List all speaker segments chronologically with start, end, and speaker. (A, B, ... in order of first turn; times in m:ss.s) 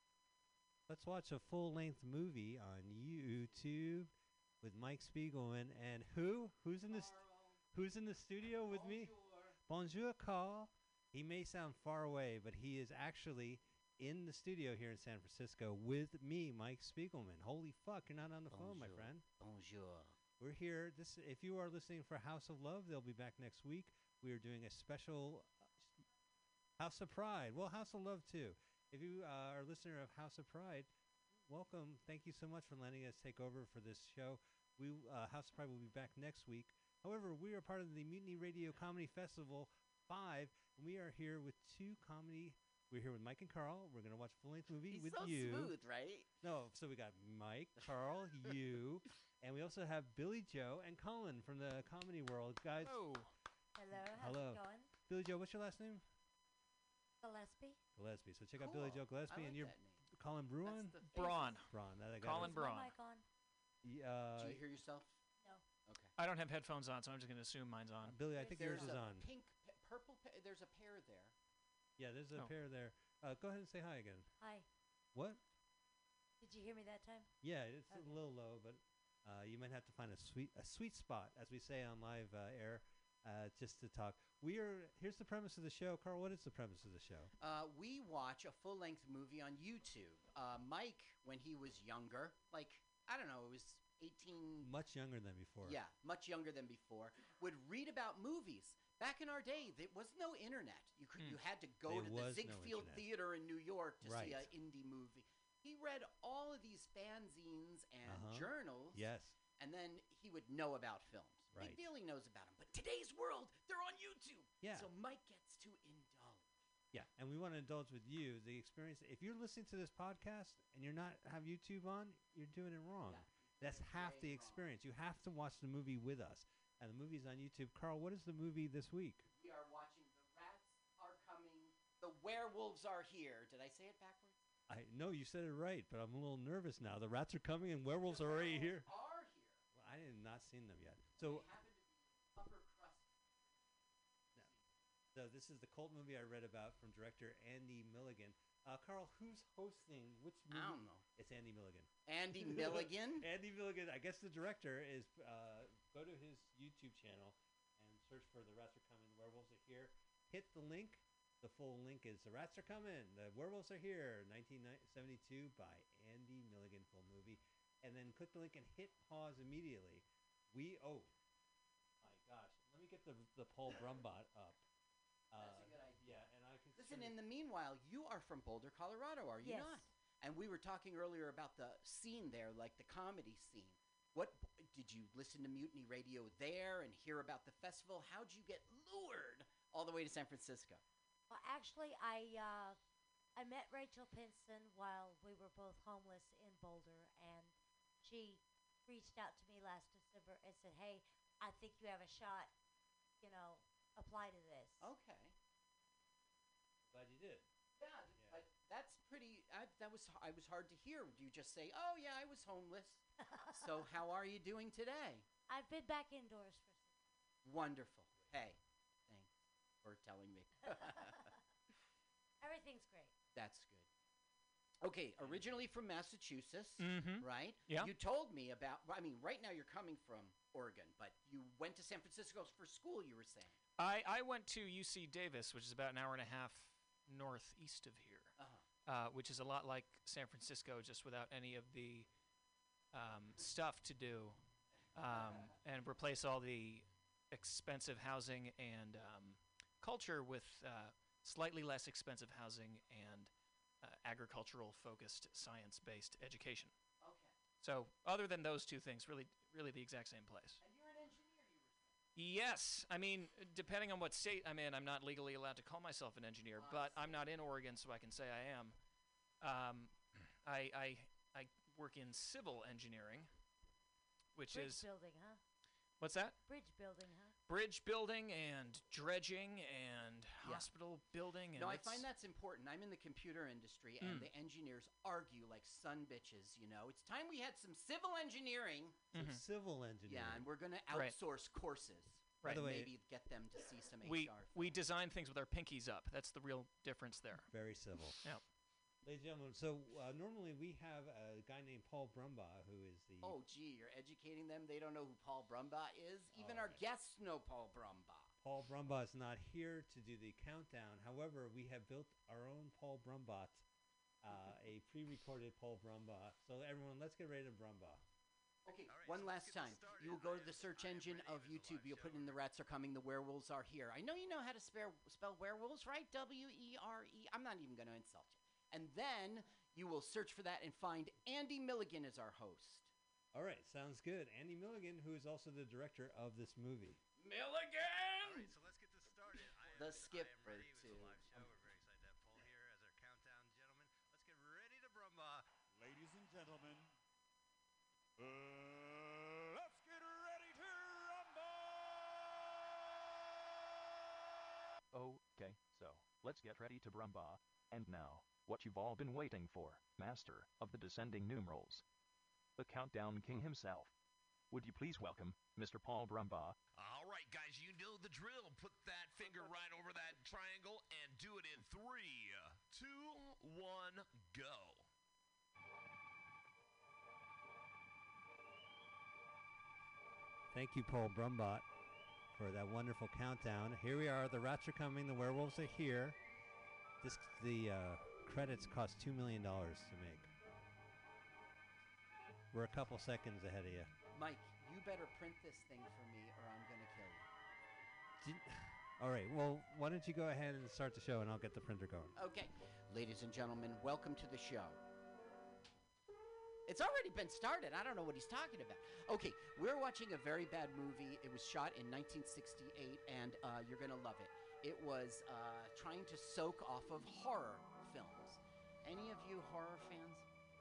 0:00.9-0:07.2 A
0:06.9-0:07.6 B
0:07.7-0:19.2 A
0:08.6-0:09.6 B
0:18.5-0:20.2 B
0:20.4-0:26.0 A
0:26.8-0:45.8 A
0:44.9-0:46.3 B
0:46.4-0:53.0 A
0:52.8-0:53.3 C
0:53.8-0:54.9 D
0:54.1-0:56.0 A
0:57.2-0:57.8 D
0:58.0-1:01.0 A
0:58.6-1:00.0 B
1:00.6-1:01.5 B
1:01.1-1:02.9 C
1:01.7-1:02.6 A
1:02.3-1:03.2 D
1:03.8-1:04.6 A
1:04.4-1:05.2 B
1:05.8-1:06.1 B
1:06.2-1:08.2 C
1:08.0-1:09.3 A
1:08.4-1:08.9 D
1:08.4-1:11.3 B
1:12.0-1:14.3 A
1:14.4-1:14.6 D
1:15.1-1:15.4 A
1:16.4-1:17.3 D
1:17.4-1:27.3 A
1:17.9-1:18.2 D
1:27.4-1:34.7 B
1:34.6-1:35.8 A
1:35.6-1:56.5 B
1:41.8-1:43.1 A
1:44.0-1:44.5 A
1:48.0-1:49.4 A
1:51.5-1:51.8 A
1:54.6-1:54.9 A
1:56.9-2:09.3 A
2:03.0-2:04.6 B
2:09.3-2:14.4 B
2:14.7-2:18.9 A
2:18.0-2:19.6 B
2:19.7-2:21.5 A
2:21.2-2:23.1 B
2:24.4-2:24.7 B
2:25.1-2:51.1 A
2:30.5-2:31.0 B
2:32.1-2:33.3 B
2:52.0-2:54.6 A
2:55.3-2:57.2 A
2:55.4-3:10.8 B
2:59.4-2:59.9 D
3:11.3-3:12.8 D
3:13.4-3:22.5 D
3:23.2-3:24.9 D
3:24.8-3:25.3 B
3:26.9-3:27.4 A
3:27.8-3:35.2 B
3:33.3-3:33.6 D
3:35.5-3:36.9 D
3:37.4-3:41.3 B
3:42.4-3:43.1 D
3:43.3-3:43.9 B
3:44.8-3:53.6 B
3:46.8-3:47.9 C
3:53.8-4:02.1 C
3:58.4-3:58.6 B
4:02.9-4:04.4 C
4:04.9-4:13.3 C
4:13.8-4:16.7 C
4:17.0-4:17.3 B
4:17.6-4:20.6 C
4:20.6-4:22.0 B
4:22.2-4:28.8 C
4:26.6-4:27.2 B
4:29.4-4:33.3 C
4:34.4-4:34.8 C
4:34.5-4:35.4 D
4:36.0-4:36.4 C
4:36.5-4:37.3 D
4:37.5-4:42.0 C
4:40.4-4:40.7 B
4:41.5-4:49.0 B
4:44.0-4:44.3 C
4:49.1-4:49.4 C
4:49.1-4:50.5 A
4:50.1-4:54.8 B
4:50.9-4:51.2 C
4:52.4-4:52.7 C
4:52.4-4:52.9 A
4:54.0-4:57.5 C
4:57.5-4:58.3 A
4:59.0-5:03.4 A
5:03.2-5:08.4 B
5:06.4-5:06.8 A
5:08.4-5:13.6 A
5:14.2-5:18.0 A
5:18.6-5:32.9 B
5:18.7-5:22.4 A
5:33.3-5:37.0 A
5:37.2-5:38.5 B
5:38.2-5:45.5 A
5:39.8-5:41.2 B
5:45.7-5:46.9 E
5:48.2-5:52.8 E
5:54.9-6:01.8 F
6:02.6-6:03.9 F
6:04.5-6:06.6 F
6:06.7-6:14.9 G
6:20.5-6:21.7 A
6:22.3-6:26.2 A
6:27.0-6:30.3 A
6:32.5-6:33.9 A
6:34.1-6:37.3 B
6:38.2-6:42.1 A
6:42.2-6:44.8 B
6:46.7-7:00.2 B